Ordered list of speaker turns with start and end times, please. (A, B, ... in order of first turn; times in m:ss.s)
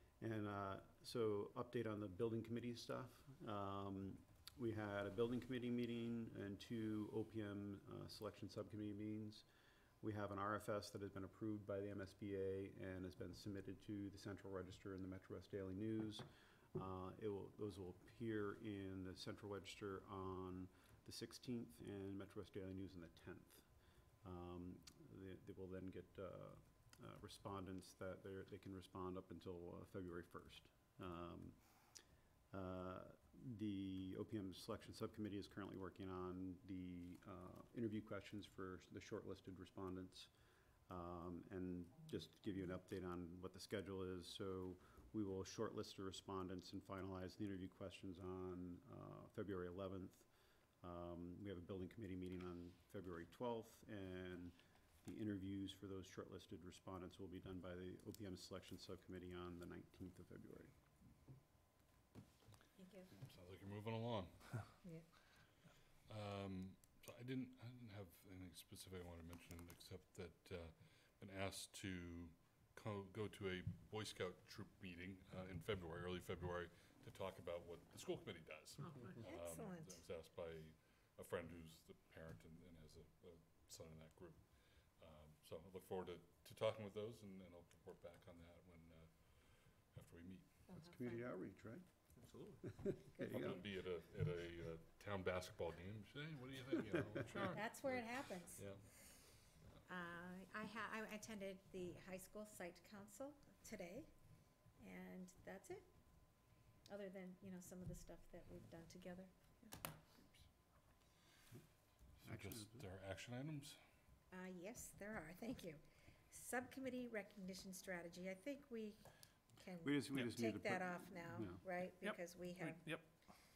0:00.2-0:09.4 A
0:10.0-0:23.7 A
0:24.2-0:31.8 A
0:32.5-0:40.3 A
0:40.9-0:50.3 A
0:50.8-1:00.7 A
1:02.8-1:03.1 B
1:03.1-1:04.6 C
1:06.1-1:30.6 C
1:18.8-1:19.2 D
1:19.2-1:20.0 B
1:30.7-1:31.2 B
1:30.7-1:31.8 A
1:32.2-1:32.6 D
1:32.6-1:33.6 A
1:33.1-1:33.6 B
1:33.2-1:38.9 C
1:37.5-1:38.7 B
1:39.9-1:44.1 B
1:44.8-1:45.8 B
1:46.9-1:50.4 B
1:52.2-1:53.8 C
1:52.2-1:52.8 A
1:54.3-2:03.0 B
1:59.8-2:01.6 A
2:02.0-2:03.2 D